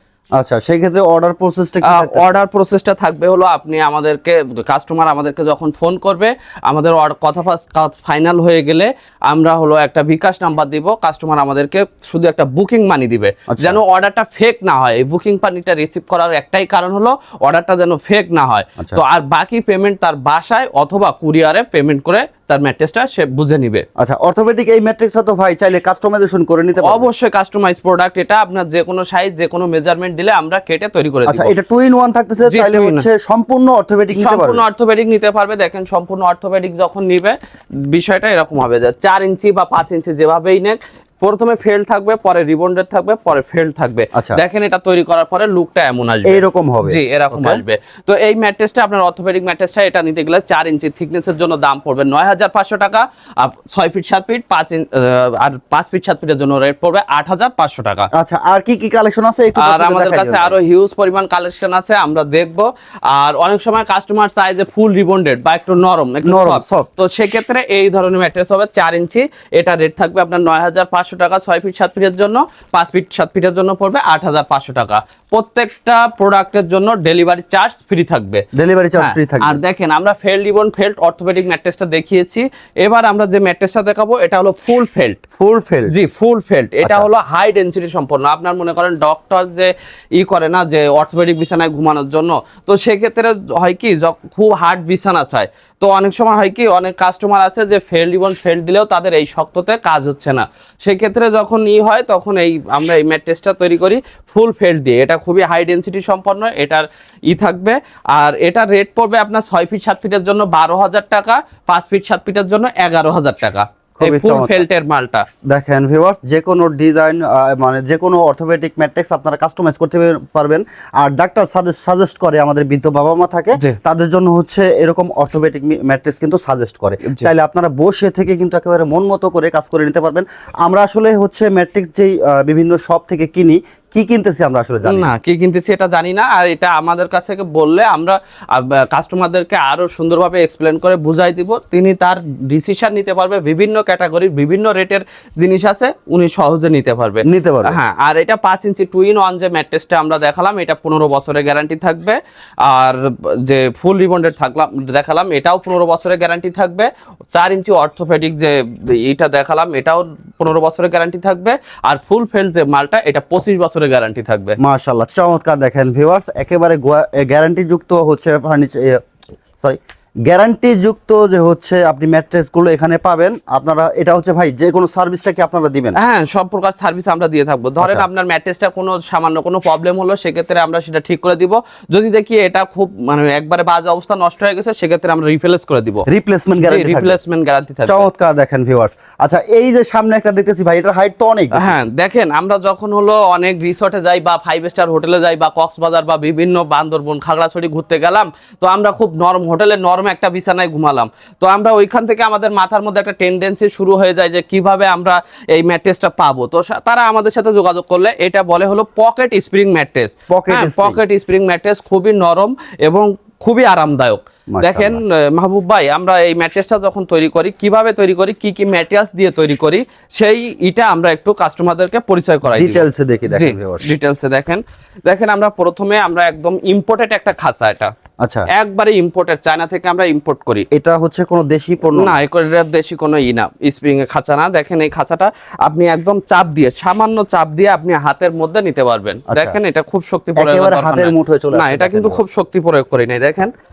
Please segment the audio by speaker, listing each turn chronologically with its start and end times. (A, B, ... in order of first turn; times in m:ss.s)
0:00.4-0:02.4 A
0:01.8-0:23.8 B
0:13.5-0:13.8 A
0:24.0-0:27.1 A
0:26.8-0:31.5 B
0:31.3-0:34.6 A
0:32.4-0:33.0 B
0:34.1-0:58.1 B
0:44.1-0:44.4 A
0:46.2-0:47.6 A
0:58.1-1:00.6 A
0:59.6-1:18.4 B
1:06.2-1:06.9 A
1:18.5-1:19.6 A
1:19.0-1:25.2 B
1:25.3-1:25.9 A
1:25.9-1:55.2 B
1:54.0-1:54.6 A
1:55.5-2:15.1 A
2:07.0-2:07.3 B
2:14.8-2:44.6 B
2:27.2-2:27.8 A
2:44.6-2:49.0 A
2:49.6-2:56.0 A
2:56.0-3:06.0 B
3:06.1-3:07.2 A
3:06.6-3:08.1 B
3:07.8-3:11.8 A
3:11.5-3:47.9 B
3:30.3-3:31.0 A
3:34.5-3:35.0 A
3:42.5-3:43.8 A
3:48.2-3:48.5 A
3:48.5-3:50.7 B
3:50.7-3:52.2 A
3:52.0-4:03.5 B
3:59.3-3:59.6 A
4:00.4-4:02.2 A